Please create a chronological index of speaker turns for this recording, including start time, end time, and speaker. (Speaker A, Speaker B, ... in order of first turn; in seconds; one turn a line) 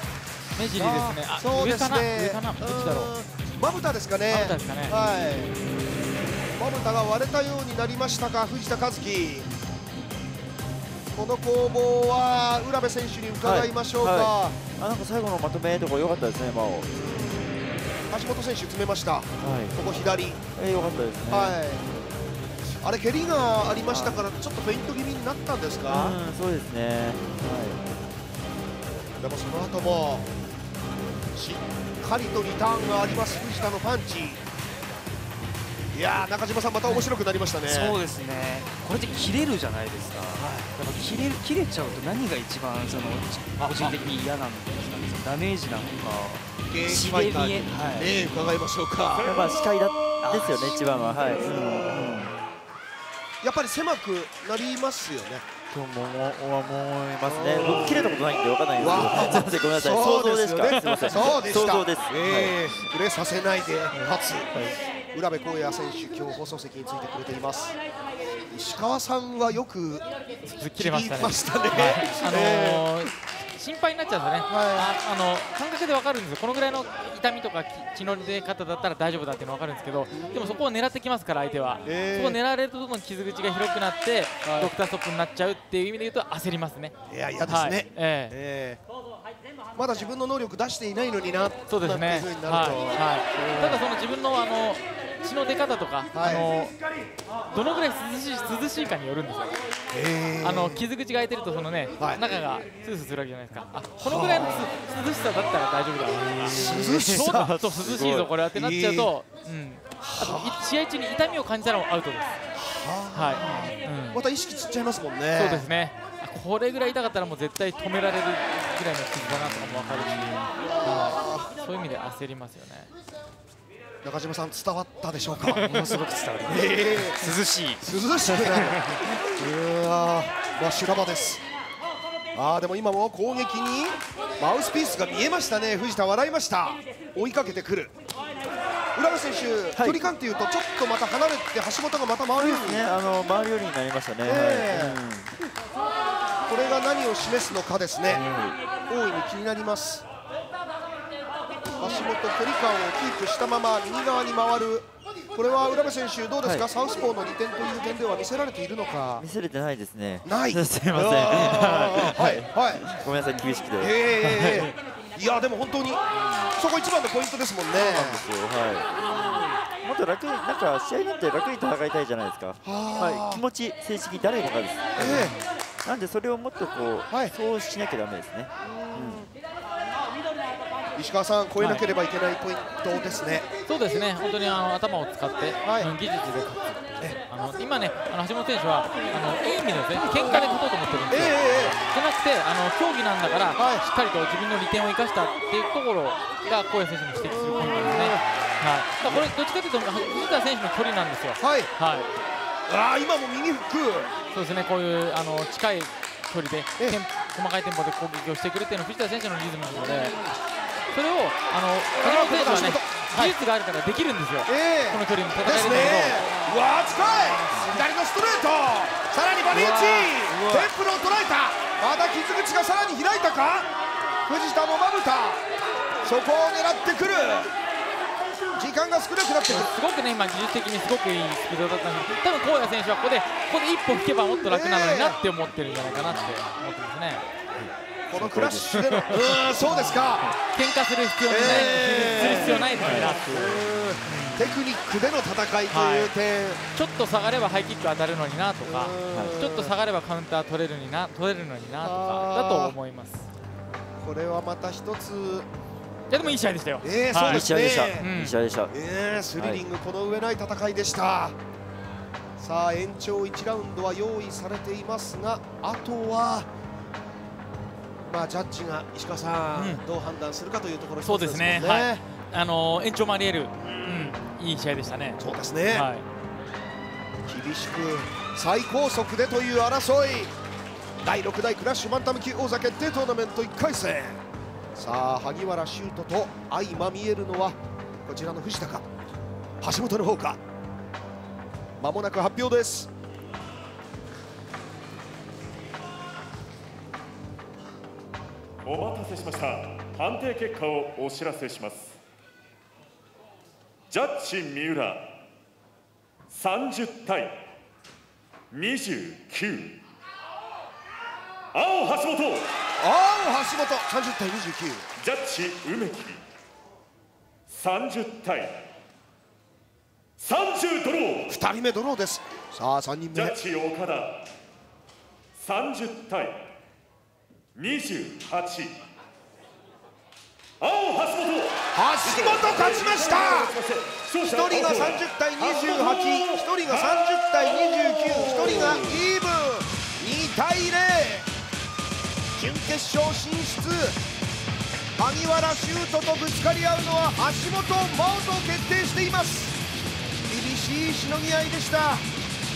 Speaker A: 0.6-3.1
Speaker B: 0.8-5.6
Speaker A: 4.3-5.0
Speaker B: 6.5-9.5
Speaker B: 11.1-14.6
Speaker C: 13.4-17.0
Speaker B: 17.0-17.5
Speaker B: 18.1-20.4
Speaker C: 19.4-19.8
Speaker C: 20.6-21.6
Speaker B: 21.3-22.0
Speaker B: 22.8-26.2
Speaker C: 23.9-24.2
Speaker C: 25.9-27.8
Speaker B: 29.2-30.3
Speaker B: 31.3-34.4
Speaker B: 35.9-38.0
Speaker D: 36.8-48.3
Speaker B: 40.4-40.7
Speaker B: 43.6-44.0
Speaker B: 46.7-49.4
Speaker C: 49.2-52.3
Speaker D: 50.2-51.1
Speaker B: 51.4-52.3
Speaker B: 53.4-55.5
Speaker C: 55.7-62.9
Speaker B: 57.2-58.2
Speaker B: 58.8-67.8
Speaker A: 60.8-61.1
Speaker C: 64.5-64.8
Speaker B: 68.5-70.0
Speaker A: 70.4-86.9
Speaker B: 70.8-73.1
Speaker B: 74.5-74.9
Speaker B: 80.1-80.6
Speaker B: 81.8-82.4
Speaker B: 87.1-88.8
Speaker A: 87.5-88.3
Speaker B: 89.8-93.8
Speaker A: 91.7-96.8
Speaker B: 96.1-96.6
Speaker A: 97.5-99.5
Speaker B: 99.9-100.8
Speaker A: 100.4-112.4
Speaker B: 102.0-102.2
Speaker B: 104.0-104.7
Speaker D: 106.1-107.2
Speaker B: 106.5-107.5
Speaker C: 107.2-108.3
Speaker B: 108.5-109.1
Speaker B: 110.0-110.6
Speaker B: 112.6-115.7
Speaker A: 113.1-114.2
Speaker A: 115.3-122.9
Speaker B: 120.8-121.5
Speaker B: 124.0-125.7
Speaker D: 125.6-129.0
Speaker B: 126.5-127.3
Speaker B: 127.8-131.4
Speaker B: 132.3-137.9
Speaker B: 138.9-142.8
Speaker C: 139.8-140.1
Speaker C: 142.3-145.3
Speaker B: 144.2-145.0
Speaker B: 146.5-148.3
Speaker C: 148.1-148.6
Speaker B: 148.9-150.1
Speaker B: 151.8-159.2
Speaker C: 159.2-164.8
Speaker B: 160.2-162.9
Speaker B: 163.8-166.0
Speaker C: 166.1-166.5
Speaker B: 166.5-168.3
Speaker C: 167.7-179.2
Speaker B: 169.1-169.6
Speaker B: 172.6-173.4
Speaker B: 175.0-175.3
Speaker A: 175.1-175.4
Speaker B: 177.1-177.3
Speaker B: 178.7-179.3
Speaker B: 181.0-183.5
Speaker A: 181.6-181.9
Speaker A: 183.7-202.1
Speaker B: 185.6-185.9
Speaker B: 191.1-191.8
Speaker B: 193.6-193.8
Speaker B: 197.3-198.2
Speaker B: 199.0-199.3
Speaker B: 201.4-201.7
Speaker B: 202.7-204.1
Speaker A: 204.3-210.2
Speaker A: 210.9-216.3
Speaker B: 212.0-213.4
Speaker B: 214.5-223.7
Speaker D: 219.5-220.7
Speaker B: 224.3-225.4
Speaker B: 226.0-227.5
Speaker B: 228.6-229.7
Speaker A: 229.5-237.2
Speaker B: 234.4-235.2
Speaker C: 237.6-238.7
Speaker B: 238.1-240.3
Speaker A: 238.7-239.2
Speaker A: 240.4-244.6
Speaker B: 241.3-246.6
Speaker C: 242.2-243.4
Speaker A: 245.7-246.2
Speaker A: 246.7-253.3
Speaker B: 248.6-249.7
Speaker C: 249.1-249.4
Speaker B: 251.8-252.8
Speaker B: 254.0-255.5
Speaker A: 256.1-258.4
Speaker B: 256.2-258.1
Speaker C: 257.2-258.7
Speaker B: 258.7-261.4
Speaker C: 259.4-259.6
Speaker B: 262.4-266.5
Speaker B: 268.1-272.0
Speaker A: 269.5-269.9
Speaker A: 271.0-276.1
Speaker B: 275.2-275.9
Speaker B: 277.3-280.3
Speaker B: 281.0-284.2
Speaker B: 284.8-288.9
Speaker B: 289.6-290.4
Speaker B: 291.8-292.9
Speaker E: 299.1-301.9
Speaker E: 304.0-305.0
Speaker E: 306.7-307.1
Speaker E: 308.9-309.7
Speaker B: 312.8-314.9
Speaker E: 315.2-316.1
Speaker E: 317.9-318.4
Speaker B: 321.2-323.5
Speaker E: 325.7-326.3
Speaker E: 327.6-328.5
Speaker B: 331.7-341.3
Speaker B: 342.4-344.0
Speaker B: 345.0-349.6
Speaker B: 350.3-352.1